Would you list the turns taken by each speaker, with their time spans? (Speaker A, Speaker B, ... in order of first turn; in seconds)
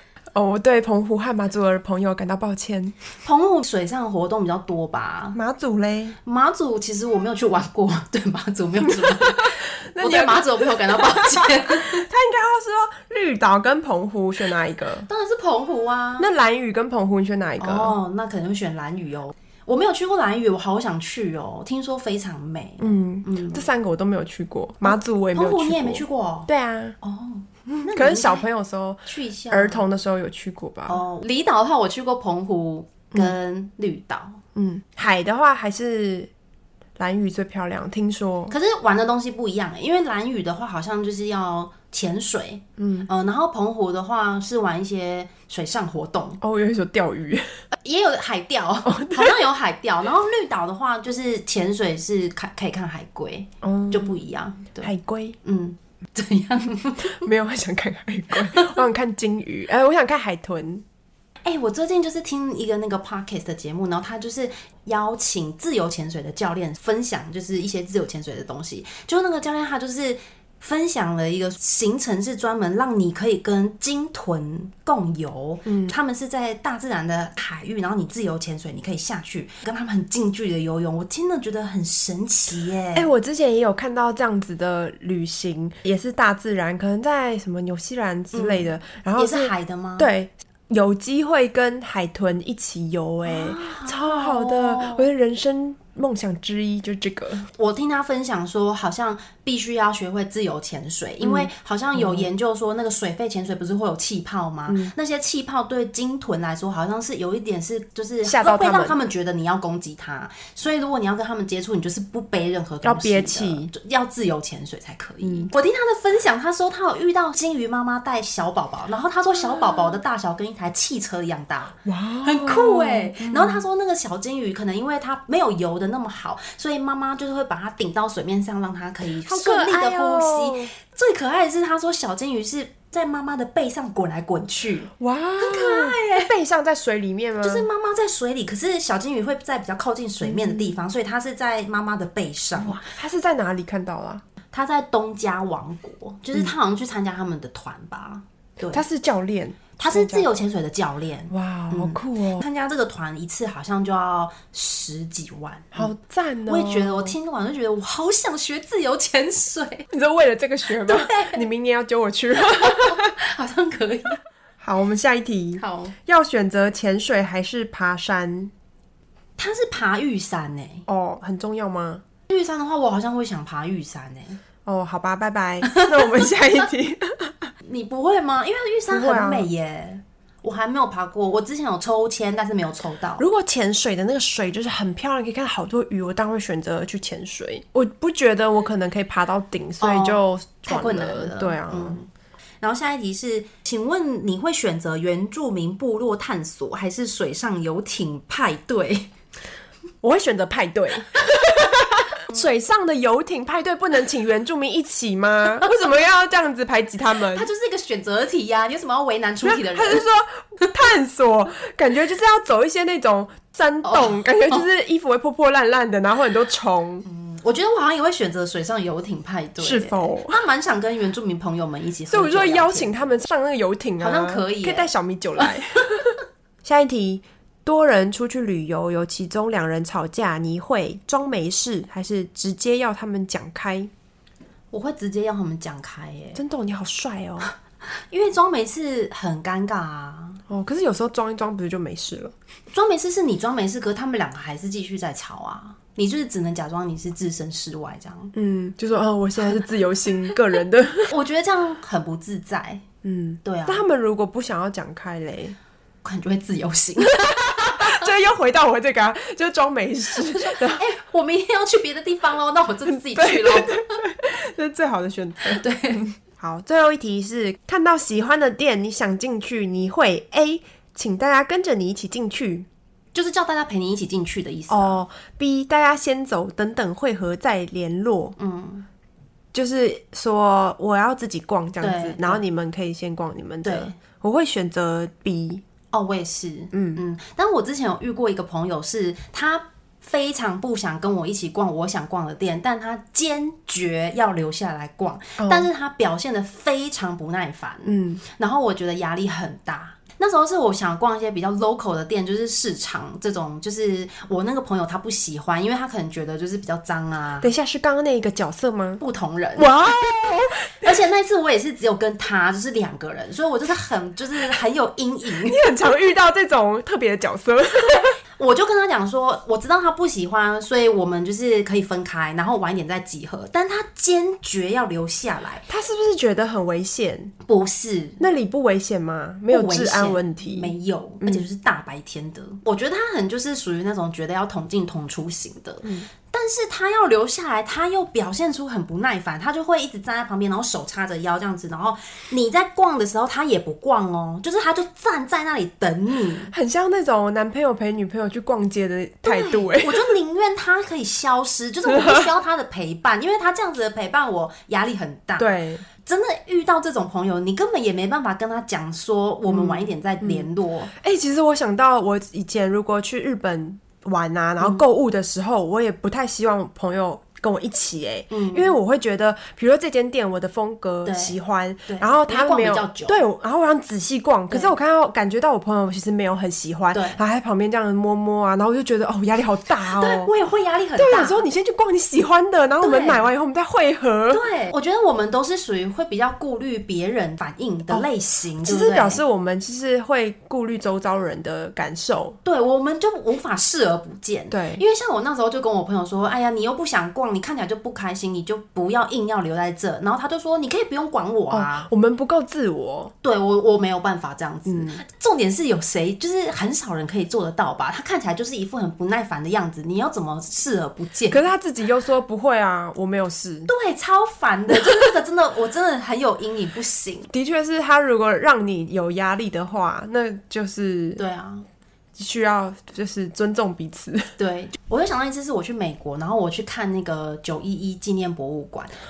Speaker A: 0.3-2.9, 5.3-6.2, 8.9-15.1, 16.2-17.9, 22.8-26.9, 27.7-31.0, 34.5-36.3, 37.0-38.5, 42.8-43.1, 46.4-47.5, 48.9-49.4, 53.6-54.1, 54.8-55.4, 57.0-60.8, 75.7-75.9, 82.9-97.5, 101.2-102.3, 104.7-104.9, 108.2-109.0, 112.8-113.7, 115.2-115.5, 121.8-123.6, 129.2-130.7, 135.0-137.7, 140.2-140.7, 142.6-144.2, 148.7-150.3, 151.3-152.4, 155.7-157.1, 159.9-163.1, 164.6-168.5, 170.9-172.0, 174.6-177.5, 178.9-179.5, 183.2-192.0, 200.0-207.5, 209.4-217.0, 219.6-220.4, 222.1-233.9, 236.3-237.5, 240.5-242.3, 248.3-251.1, 253.0-255.6, 257.2-260.8, 262.9-272.7, 274.7-278.4, 279.5-285.6, 286.7-287.0, 295.4-295.7, 297.9-298.2, 307.4-309.0, 309.6-311.0, 315.4-318.2, 325.7-327.3, 328.2-331.4, 346.5-350.1, 351.9-352.3, 355.4-355.8, 359.5-380.3, 381.0-384.4, 388.6-392.4, 394.5-394.8, 401.5-403.1, 404.7-405.0, 411.3-413.7, 417.3-421.2, 422.1-424.3
Speaker B: 3.2-5.4, 6.2-12.1, 15.1-16.3, 17.6-23.6, 24.8-26.5, 27.0-28.5, 29.1-29.8, 30.9-34.4, 38.5-46.4, 47.7-54.9, 55.4-57.2, 58.5-58.8, 61.4-83.1, 88.3-90.1, 93.2-95.1, 97.5-136.3, 137.4-142.8, 144.5-148.8, 149.8-155.9, 156.5-159.9, 160.7-161.4, 162.5-164.2, 165.6-165.9, 169.4-170.8, 172.3-174.4, 175.6-176.3, 177.6-183.2, 189.8-192.1, 192.6-199.1, 207.3-210.0, 213.8-214.6, 217.0-223.2, 224.0-225.5, 234.7-236.4, 238.1-240.4, 242.7-248.3, 251.1-252.8, 253.4-253.8, 256.0-258.1, 260.1-264.0, 265.4-266.1, 273.1-275.0, 278.4-278.9, 281.8-282.4, 283.6-283.9, 285.9-307.5, 309.0-309.7, 310.8-315.6, 318.4-325.6, 327.4-328.2, 329.5-346.5, 349.2-355.5, 356.0-360.9, 368.3-368.8, 371.0-371.4, 371.9-373.2, 376.9-377.2, 379.9-381.4, 382.8-383.3, 384.3-389.2, 392.4-401.9, 403.2-411.4, 413.7-417.3, 421.2-421.6, 424.4-429.0